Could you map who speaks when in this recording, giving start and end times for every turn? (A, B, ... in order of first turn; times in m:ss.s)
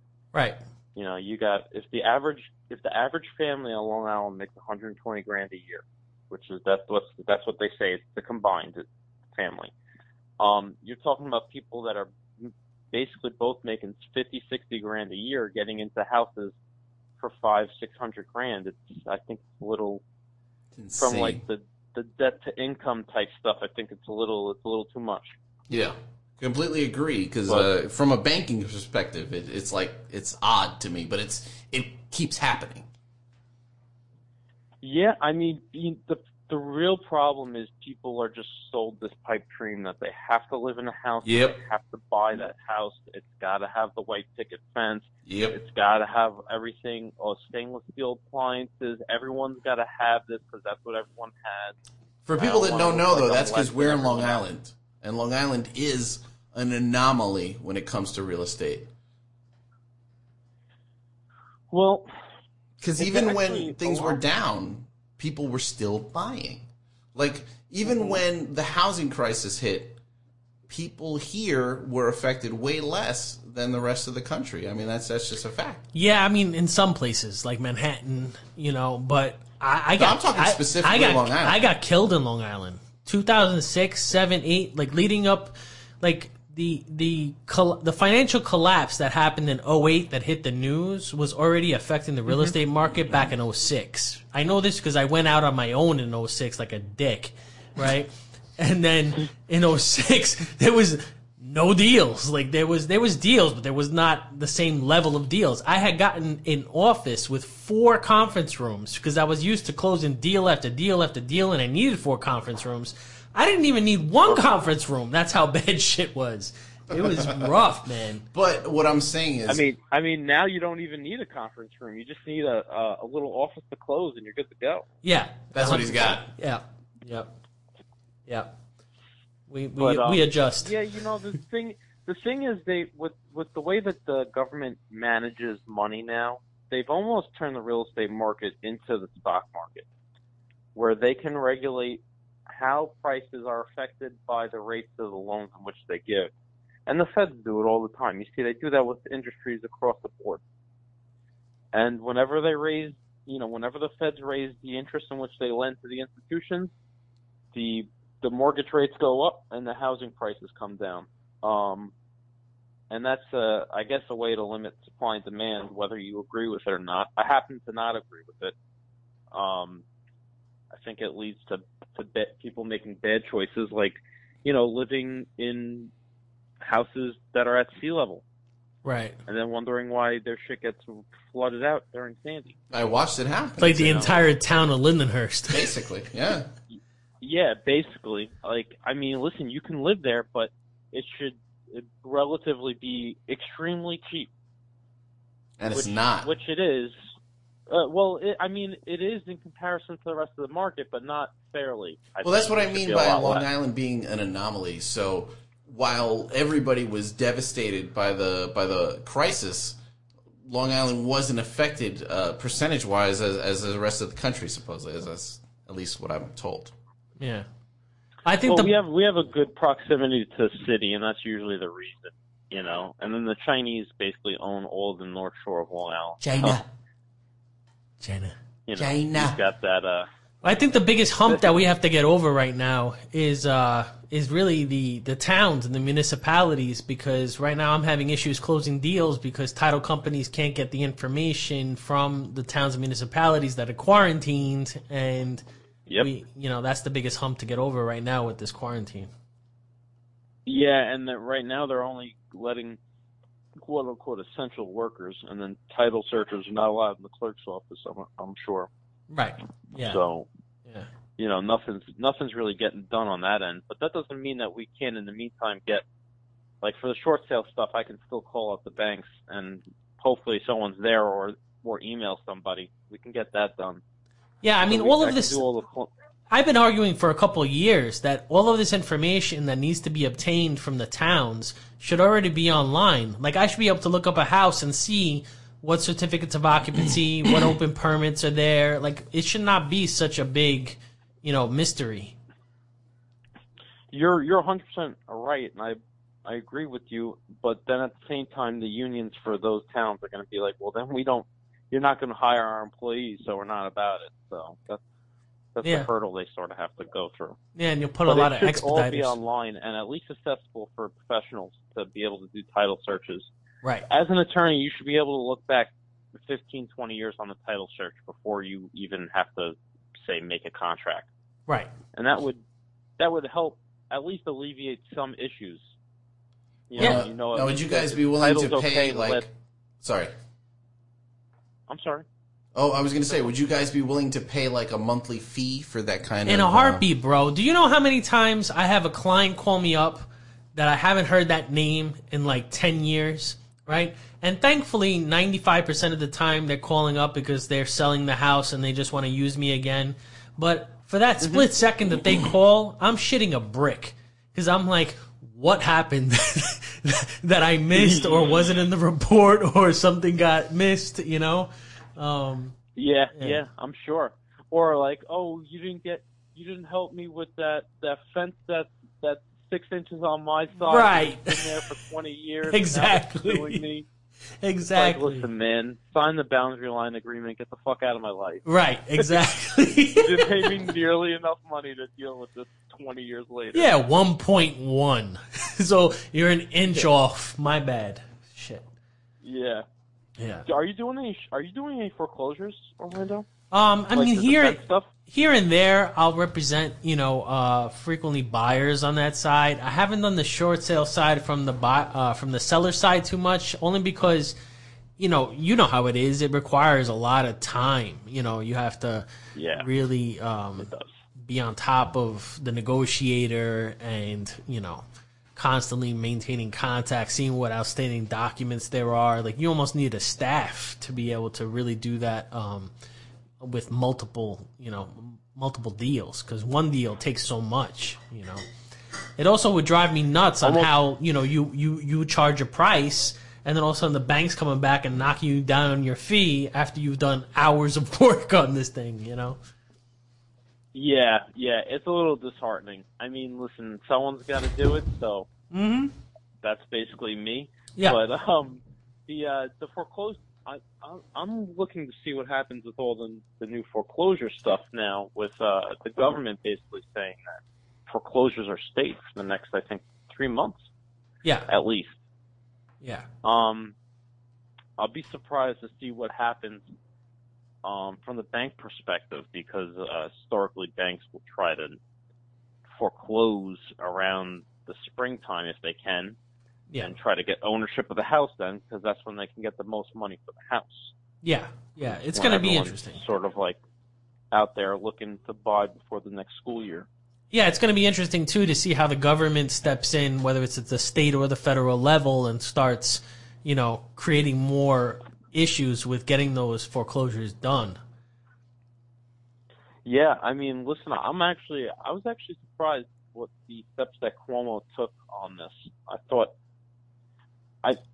0:00.3-0:00.6 A
0:00.9-0:09.7 B
0:10.4-0:16.5 B
0:17.2-0:20.0 B
0:20.7-0:21.4 C
0:21.0-0:25.4 B
0:25.7-0:32.9 C
0:34.8-0:51.7 B
0:41.2-0:41.6 C
0:45.2-0:45.6 C
0:52.2-0:58.9 C
0:52.4-0:54.4 B
1:01.7-1:02.1 B
1:02.8-1:10.0 C
1:03.0-1:04.2 B
1:07.8-1:08.2 B
1:10.7-1:15.8 C
1:15.9-1:58.2 A
1:20.0-1:21.6 C
1:56.9-1:57.5 C
1:58.3-1:59.6 C
1:59.5-2:04.9 B
2:05.0-2:07.3 A
2:05.5-2:06.3 C
2:09.5-2:10.7 A
2:09.8-2:19.8 B
2:20.7-2:26.3 B
2:26.9-2:30.4 B
2:31.7-2:36.7 B
2:37.5-2:41.9 B
2:42.9-2:48.5 B
2:49.3-2:49.8 B
2:50.7-2:55.9 B
2:56.6-2:58.2 B
2:58.8-2:59.2 A
2:59.3-3:02.6 B
3:02.7-3:04.2 C
3:03.6-3:05.7 A
3:03.8-3:04.2 B
3:05.5-3:06.5 C
3:06.7-3:14.3 B
3:15.6-3:16.3 C
3:15.7-3:16.9 B
3:17.7-3:23.4 B
3:22.2-3:29.8 C
3:30.4-3:36.7 C
3:37.2-3:37.4 A
3:38.2-3:38.7 A
3:38.4-3:46.6 B
3:46.2-3:46.7 C
3:48.0-3:48.3 A
3:48.7-3:50.1 B
3:48.7-3:49.4 C
3:50.4-4:05.4 A
4:06.0-4:09.1 A
4:10.4-4:12.8 B
4:13.6-4:18.7 B
4:19.1-4:20.0 A
4:19.8-4:20.3 B
4:21.2-4:25.8 B
4:26.6-4:33.8 B
4:34.4-4:35.4 A
4:34.7-4:35.9 B
4:36.3-4:52.2 A
4:53.9-5:04.8 B
5:05.5-5:07.4 B
5:05.6-5:05.9 A
5:07.6-5:09.2 A
5:08.1-5:13.3 B
5:13.9-5:21.1 B
5:21.9-5:22.4 B
5:23.0-5:25.6 B
5:26.7-5:29.2 B
5:26.8-5:29.3 C
5:29.8-5:30.1 C
5:31.7-5:32.0 B
5:32.5-5:36.8 C
5:36.2-6:02.6 A
5:51.2-5:51.5 B
5:57.7-5:58.5 B
6:02.8-6:13.8 B
6:10.6-6:11.5 A
6:12.5-6:13.6 A
6:14.4-6:15.3 A
6:14.7-6:18.4 B
6:18.4-6:20.5 A
6:20.0-6:23.7 B
6:23.5-6:28.6 A
6:29.2-6:29.6 B
6:30.2-6:30.4 A
6:30.4-6:33.3 B
6:33.5-6:44.4 A
6:33.9-6:34.9 B
6:45.0-6:54.8 A
6:49.3-6:49.7 B
6:50.6-6:50.9 B
6:55.4-7:02.7 A
7:03.4-7:08.4 A
7:09.2-7:19.4 A
7:10.4-7:10.7 B
7:20.7-7:25.3 B
7:25.5-7:25.9 A
7:26.4-7:40.6 B
7:41.2-7:41.5 A
7:41.5-7:42.0 B
7:42.8-7:43.1 A
7:43.2-7:43.7 B
7:44.8-7:46.6 B
7:47.6-7:51.8 B
7:52.8-7:56.2 B
7:56.8-8:00.9 B
8:01.2-8:03.0 A
8:02.1-8:03.6 B
8:04.3-8:06.9 B
8:07.3-8:17.8 A
8:19.8-8:26.3 B